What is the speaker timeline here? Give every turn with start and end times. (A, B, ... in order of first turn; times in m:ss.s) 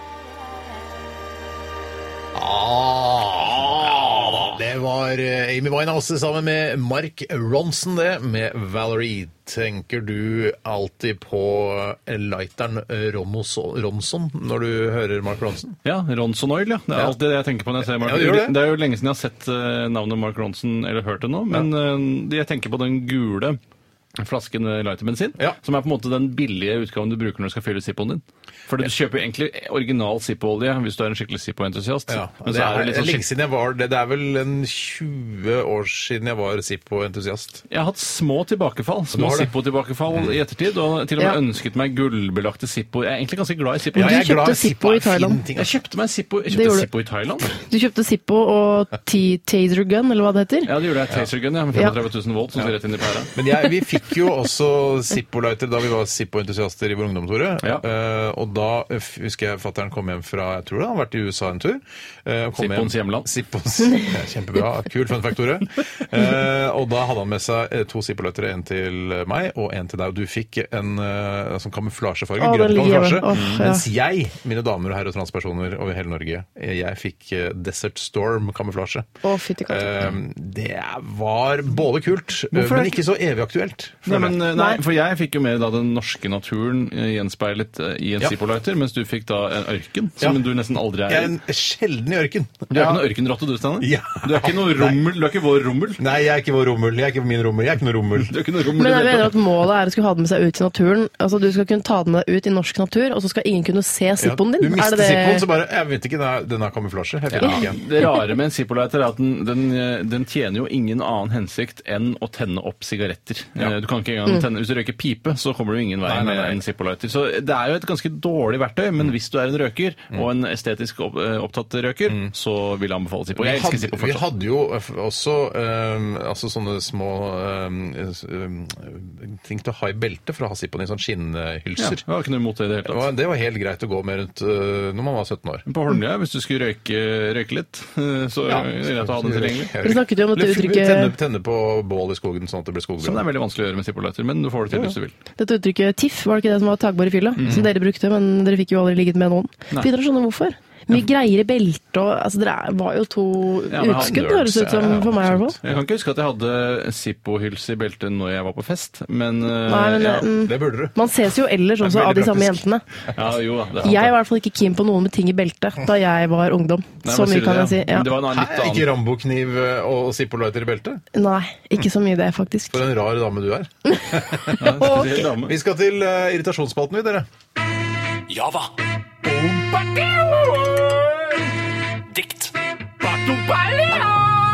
0:02.3-0:15.7 A
0:15.8-0:23.6 B
0:17.8-0:18.7 A
0:24.2-0:33.2 B
0:32.1-0:37.6 A
0:37.7-0:44.2 B
0:39.1-0:39.5 A
0:43.9-0:45.7 A
0:43.9-0:45.4 C
0:45.5-0:47.5 B
0:46.5-0:46.9 C
0:47.5-0:50.7 C
0:50.6-0:53.3 B
0:53.3-1:19.1 A
1:02.6-1:03.3 B
1:12.4-1:13.8 C
1:13.3-1:13.6 B
1:19.2-1:20.0 C
1:19.7-1:24.5 A
1:22.5-1:23.0 B
1:24.0-1:31.3 B
1:24.5-1:24.8 C
1:31.1-1:33.0 A
1:32.7-1:36.0 B
1:33.8-1:35.0 A
1:36.0-1:38.3 A
1:38.2-1:39.4 B
1:38.8-1:45.4 C
1:44.2-1:47.8 A
1:47.3-2:04.2 B
1:56.0-1:56.6 A
2:03.4-2:12.0 A
2:11.8-2:13.0 B
2:12.8-2:15.6 A
2:15.7-2:19.7 B
2:18.5-2:23.2 A
2:19.8-2:21.1 C
2:23.0-2:25.1 B
2:24.7-2:24.9 A
2:25.4-2:35.6 C
2:27.4-2:27.6 B
2:33.7-2:34.3 B
2:33.8-2:35.8 A
2:35.6-2:40.3 B
2:39.6-2:42.8 C
2:40.4-2:41.0 A
2:41.8-2:42.6 A
2:43.1-2:44.1 B
2:43.8-2:48.1 C
2:47.0-2:48.9 B
2:48.2-2:51.0 A
2:51.1-2:52.8 C
2:52.7-2:57.3 A
2:54.6-2:55.5 B
2:54.6-2:55.1 C
2:58.3-2:58.7 B
2:59.2-3:01.4 B
3:02.1-3:04.3 B